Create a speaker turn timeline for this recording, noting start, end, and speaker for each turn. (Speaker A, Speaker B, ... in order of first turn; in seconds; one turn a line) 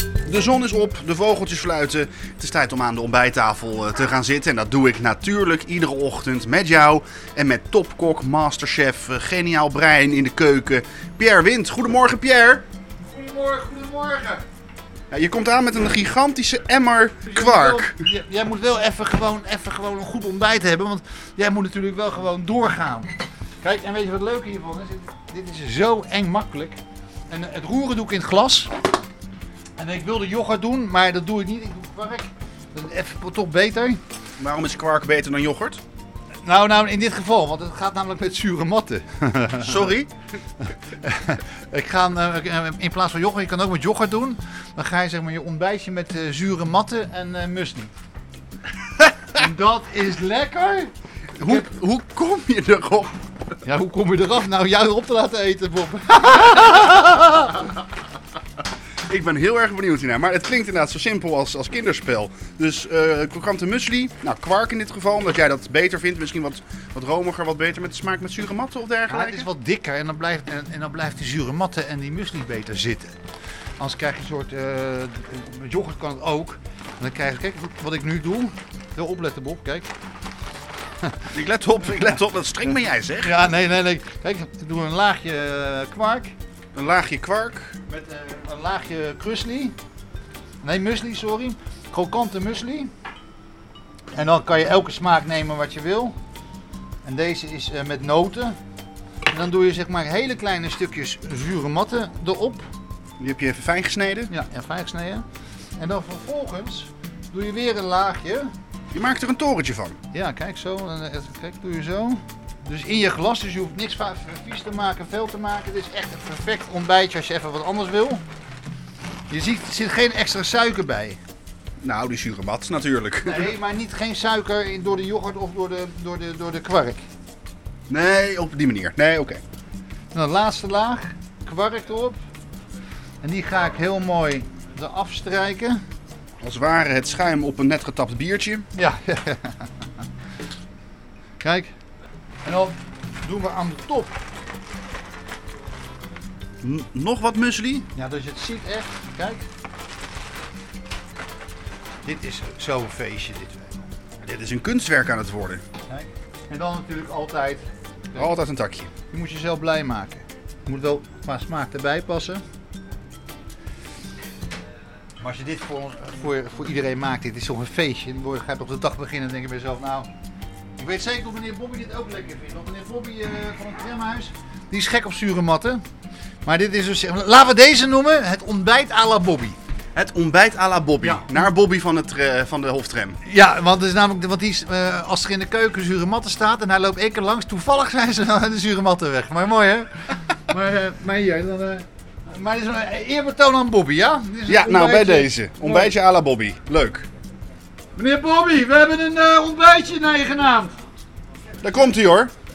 Speaker A: 0.2-12.6
Speaker B: 13.0-14.4
Speaker A: 15.1-18.0
Speaker B: 17.3-28.7
Speaker B: 29.8-34.0
Speaker A: 34.4-35.8
Speaker B: 36.4-39.9
Speaker A: 39.6-40.1
Speaker B: 41.0-47.9
Speaker B: 49.3-50.9
Speaker A: 51.4-53.1
Speaker B: 53.6-57.6
Speaker A: 59.1-69.5
Speaker B: 69.1-73.2
Speaker B: 73.8-79.9
Speaker A: 81.3-83.4
Speaker B: 83.2-86.3
Speaker A: 86.7-87.8
Speaker B: 87.9-89.7
Speaker B: 90.6-92.9
Speaker B: 94.1-96.2
Speaker B: 97.0-98.6
Speaker B: 99.3-102.7
Speaker A: 103.2-104.3
Speaker B: 104.3-105.2
Speaker B: 105.8-108.5
Speaker A: 108.9-110.0
Speaker B: 110.1-118.2
Speaker B: 119.3-121.2
Speaker A: 121.8-123.5
Speaker B: 123.2-127.0
Speaker A: 127.9-129.4
Speaker B: 130.1-132.2
Speaker B: 133.2-135.8
Speaker A: 136.4-138.7
Speaker B: 138.8-139.7
Speaker B: 141.4-141.7
Speaker B: 142.4-144.2
Speaker A: 146.6-147.9
Speaker B: 147.9-149.4
Speaker B: 152.0-153.9
Speaker A: 154.2-155.6
Speaker B: 155.9-158.3
Speaker A: 158.2-158.9
Speaker B: 159.1-162.4
Speaker B: 165.2-170.1
Speaker B: 170.8-175.8
Speaker B: 176.4-179.6
Speaker A: 179.9-183.2
Speaker B: 183.2-195.8
Speaker A: 194.5-197.1
Speaker B: 197.9-200.8
Speaker A: 201.6-202.3